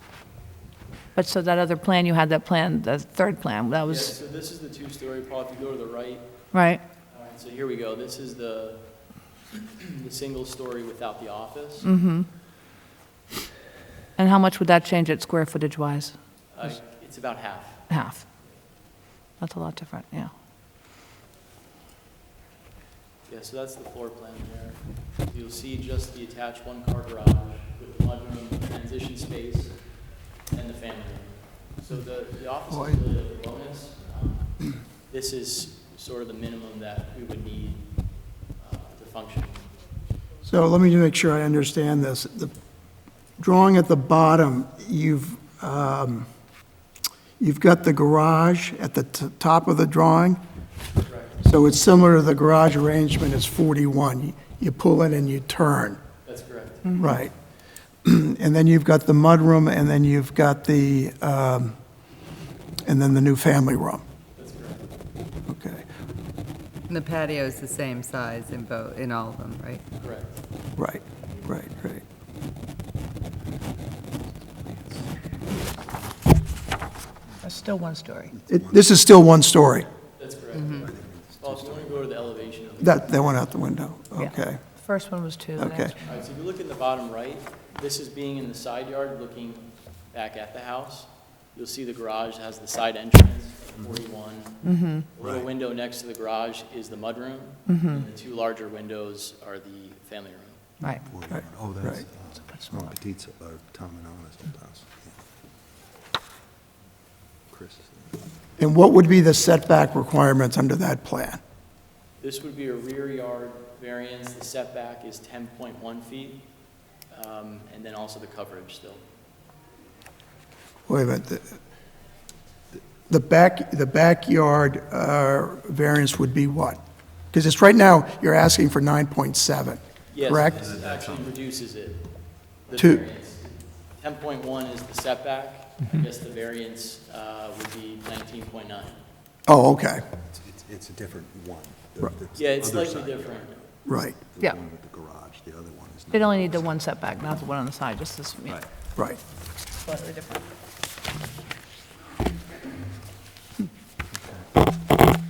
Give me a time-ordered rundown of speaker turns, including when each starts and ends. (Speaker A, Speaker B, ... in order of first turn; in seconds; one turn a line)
Speaker A: 1.1-4.1
Speaker B: 3.9-6.3
Speaker A: 6.5-6.8
Speaker B: 7.1-8.9
Speaker B: 9.6-11.9
Speaker A: 11.8-12.3
Speaker A: 14.2-16.1
Speaker B: 16.5-17.9
Speaker A: 17.9-18.2
Speaker A: 19.4-20.3
Speaker B: 23.3-29.9
Speaker B: 30.5-39.7
Speaker C: 40.4-42.5
Speaker C: 43.4-46.3
Speaker C: 47.4-50.4
Speaker B: 51.0-51.4
Speaker C: 51.4-56.0
Speaker B: 56.2-56.9
Speaker C: 57.0-57.3
Speaker C: 58.0-61.8
Speaker C: 62.9-64.0
Speaker B: 64.3-64.9
Speaker C: 65.5-65.8
Speaker D: 66.9-69.8
Speaker B: 70.0-70.4
Speaker C: 70.8-72.0
Speaker A: 77.4-78.3
Speaker E: 78.3-78.9
Speaker C: 78.5-79.9
Speaker B: 80.2-83.4
Speaker D: 80.5-80.8
Speaker E: 80.7-82.1
Speaker C: 82.8-84.6
Speaker A: 84.2-86.0
Speaker C: 85.6-86.0
Speaker B: 86.0-100.6
Speaker A: 94.6-95.1
Speaker E: 95.2-95.5
Speaker A: 97.7-98.0
Speaker E: 101.0-105.1
Speaker E: 107.5-108.2
Speaker C: 108.6-111.4
Speaker B: 112.2-116.4
Speaker B: 117.1-119.0
Speaker C: 120.9-121.6
Speaker C: 123.1-126.8
Speaker C: 127.3-130.6
Speaker B: 130.1-139.0
Speaker E: 130.5-131.3
Speaker C: 132.8-133.0
Speaker C: 139.5-140.1
Speaker E: 140.3-143.4
Speaker B: 142.4-143.6
Speaker C: 143.9-144.2
Speaker E: 144.3-146.8
Speaker A: 146.1-148.6
Speaker A: 149.8-150.5
Speaker E: 154.1-154.5